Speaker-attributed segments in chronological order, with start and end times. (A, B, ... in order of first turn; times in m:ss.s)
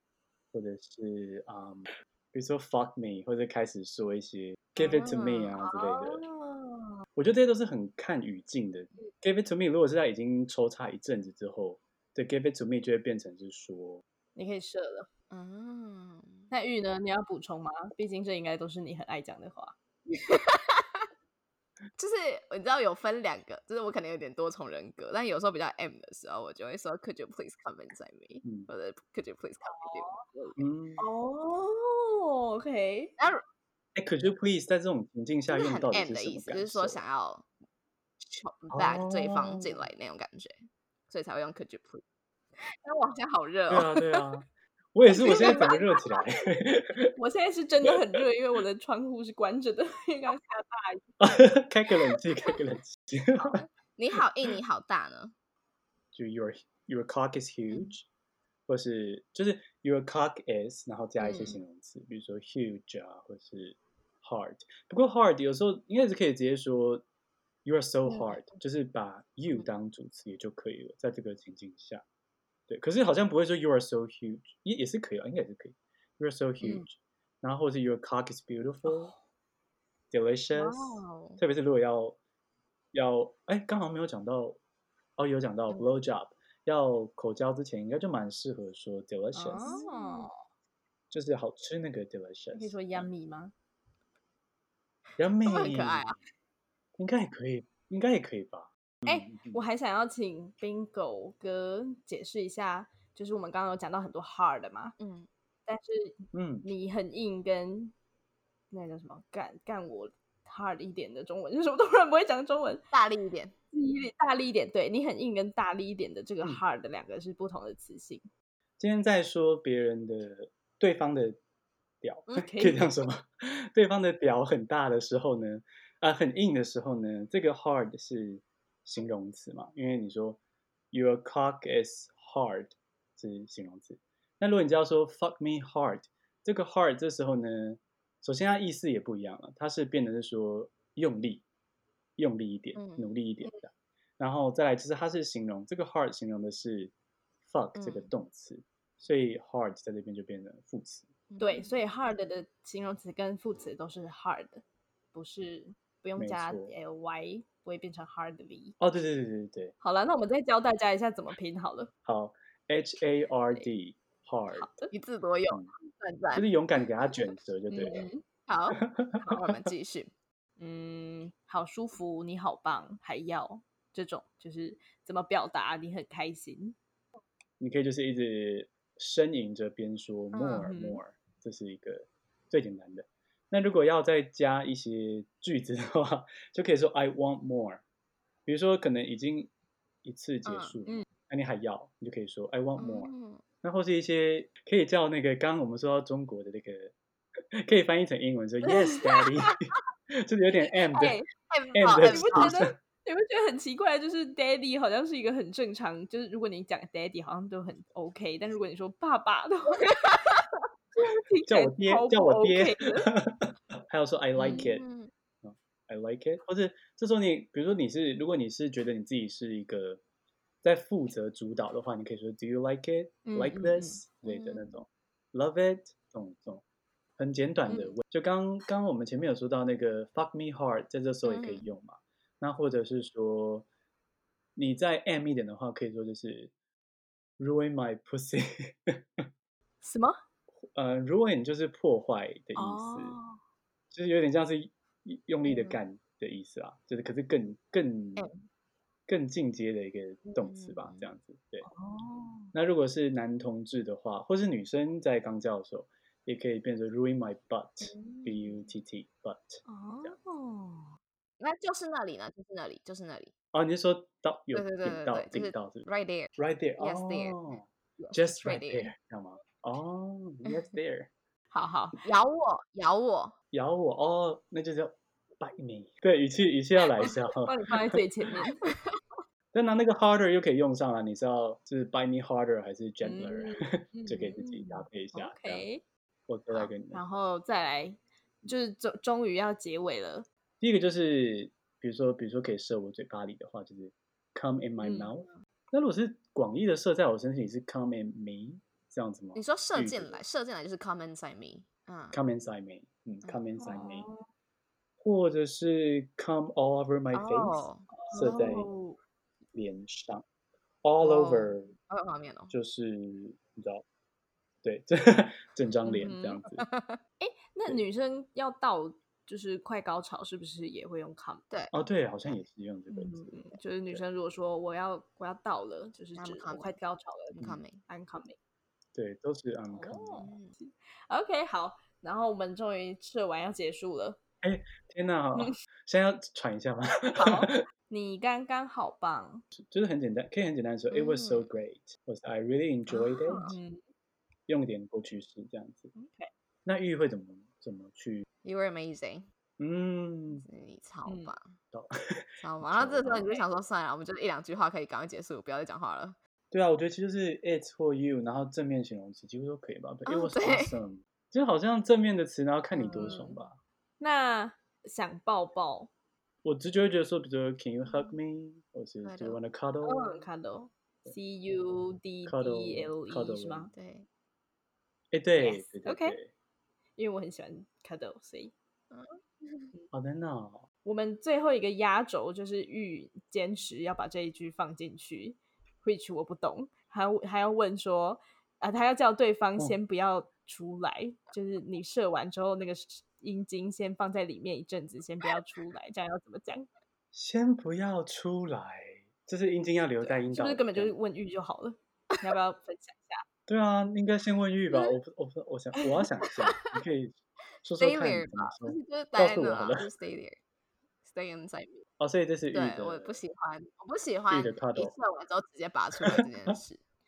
0:00.5-0:06.2 A
0:04.8-0:05.6 B
0:04.8-0:07.0 C
0:07.2-0:14.0 A
0:14.4-0:15.1 C
0:15.3-0:16.5 B
0:16.5-0:19.8 C
0:20.1-0:21.0 B
0:22.0-0:30.6 B
0:28.4-0:28.7 A
0:29.6-0:30.3 C
0:30.6-0:31.0 A
0:31.0-0:33.1 C
0:34.0-0:37.0 A
0:35.5-0:37.5 B
0:38.2-0:42.0 B
0:38.7-0:39.8 A
0:42.6-0:44.0 B
0:43.7-0:47.1 A
0:45.2-0:46.3 C
0:47.2-0:51.1 C
0:47.8-0:48.2 A
0:51.2-0:53.6 A
0:53.4-0:55.3 B
0:56.1-0:58.1 A
0:58.7-1:07.0 A
1:01.2-1:01.6 C
1:07.6-1:12.0 A
1:08.1-1:08.4 C
1:12.7-1:19.1 A
1:18.9-1:19.1 C
1:20.1-1:22.2 A
1:20.5-1:21.4 B
1:22.9-1:24.6 A
1:25.2-1:29.8 A
1:29.3-1:30.3 C
1:29.6-1:30.3 B
1:31.1-1:33.1 A
1:32.5-1:33.5 C
1:35.2-1:36.1 A
1:35.4-1:36.2 B
1:37.0-1:39.6 A
1:39.1-1:45.0 C
1:45.0-1:45.3 B
1:45.7-1:47.9 C
1:46.3-1:46.7 A
1:48.7-1:52.8 C
1:52.9-1:53.5 B
1:53.7-1:58.3 C
1:58.8-2:01.4 A
2:02.0-2:10.4 A
2:02.3-2:02.9 C
2:10.9-2:21.4 A
2:22.2-2:26.9 A
2:22.8-2:23.1 B
2:27.4-2:31.1 A
2:27.8-2:28.1 B
2:31.3-2:31.7 B
2:31.4-2:38.8 C
2:36.2-2:36.7 A
2:38.8-2:39.7 A
2:39.8-2:41.9 C
2:42.0-2:44.7 A
2:44.5-2:44.9 C
2:44.9-2:46.5 B
2:46.3-2:48.0 A
2:47.7-2:48.2 C
2:48.5-2:50.1 B
2:48.8-2:49.3 A
2:50.6-2:56.8 C
2:57.6-3:07.8 A
3:00.3-3:01.0 C
3:08.5-3:09.5 A
3:10.0-3:13.1 A
3:10.4-3:10.8 B
3:12.8-3:13.4 B
3:13.6-3:16.9 A
3:17.6-3:21.2 A
3:18.7-3:19.3 C
3:20.9-3:21.3 C
3:21.4-3:22.6 B
3:21.7-3:22.7 A
3:22.0-3:29.9 C
3:29.9-3:30.4 B
3:31.0-3:33.1 C
3:31.5-3:34.8 A
3:34.4-3:35.1 B
3:34.4-3:34.7 C
3:35.4-3:40.0 A
3:40.6-3:46.6 A
3:43.2-3:44.0 C
3:44.2-3:44.7 B
3:47.2-3:53.7 A
3:47.7-3:48.0 C
3:51.2-3:51.7 B
3:54.6-3:56.5 A
3:57.4-3:59.3 A
3:59.8-4:00.2 C
4:00.7-4:03.2 A
4:02.6-4:03.4 C
4:03.9-4:08.3 A
4:05.5-4:05.8 C
4:09.1-4:11.7 A
4:10.4-4:11.1 B
4:11.6-4:12.5 C
4:12.5-4:20.2 A
4:19.7-4:20.9 C
4:21.4-4:23.3 B
4:23.5-4:31.1 A
4:24.5-4:28.9 B
4:31.5-4:32.0 C
4:32.0-4:33.4 B
4:33.5-4:38.0 A
4:37.1-4:38.6 C
4:39.5-4:45.6 A
4:43.0-4:45.8 C
4:46.3-4:47.0 A
4:46.9-4:50.3 C
4:50.6-5:00.2 A
4:54.8-4:55.1 C
4:59.4-5:02.2 B
5:02.1-5:04.1 A
5:03.6-5:04.2 C
5:05.0-5:08.7 A
5:07.1-5:08.5 B
5:07.9-5:09.0 C
5:09.5-5:10.2 A
5:10.8-5:11.7 A
5:11.0-5:12.5 B
5:12.5-5:13.8 A
5:14.6-5:16.6 A
5:15.9-5:16.4 C
5:16.6-5:17.0 B
5:17.2-5:21.4 C
5:21.5-5:22.4 B
5:21.7-5:23.3 A
5:22.9-5:28.4 C
5:26.2-5:26.7 B
5:27.3-5:27.8 B
5:29.0-5:30.3 A
5:29.7-5:34.2 C
5:30.2-5:30.5 B
5:34.4-5:37.6 A
5:37.2-5:39.4 C
5:39.5-5:43.6 A
5:40.9-5:41.5 B
5:42.9-5:43.8 C
5:44.5-5:45.9 A
5:45.9-5:46.3 C
5:46.6-5:48.2 A
5:48.4-5:49.3 B
5:49.6-5:50.5 A
5:50.4-5:51.6 B
5:51.1-5:51.3 C
5:51.7-5:53.3 A
5:52.4-5:56.2 B
5:56.5-6:03.6 A
6:00.1-6:00.8 B
6:02.7-6:03.5 C
6:04.0-6:05.9 C
6:06.4-6:10.2 A
6:09.0-6:09.4 B
6:09.8-6:13.7 C
6:12.3-6:13.7 A
6:13.7-6:14.1 B
6:15.1-6:16.3 A
6:15.4-6:16.2 C
6:17.0-6:18.5 C
6:18.9-6:19.7 B
6:19.9-6:20.6 A
6:20.8-6:36.7 C
6:37.1-6:41.0 A
6:40.0-6:43.2 C
6:43.5-6:49.9 A
6:47.8-6:50.4 B
6:51.0-6:51.9 B
6:52.0-6:53.2 A
6:52.5-6:56.8 B
6:54.3-6:55.0 A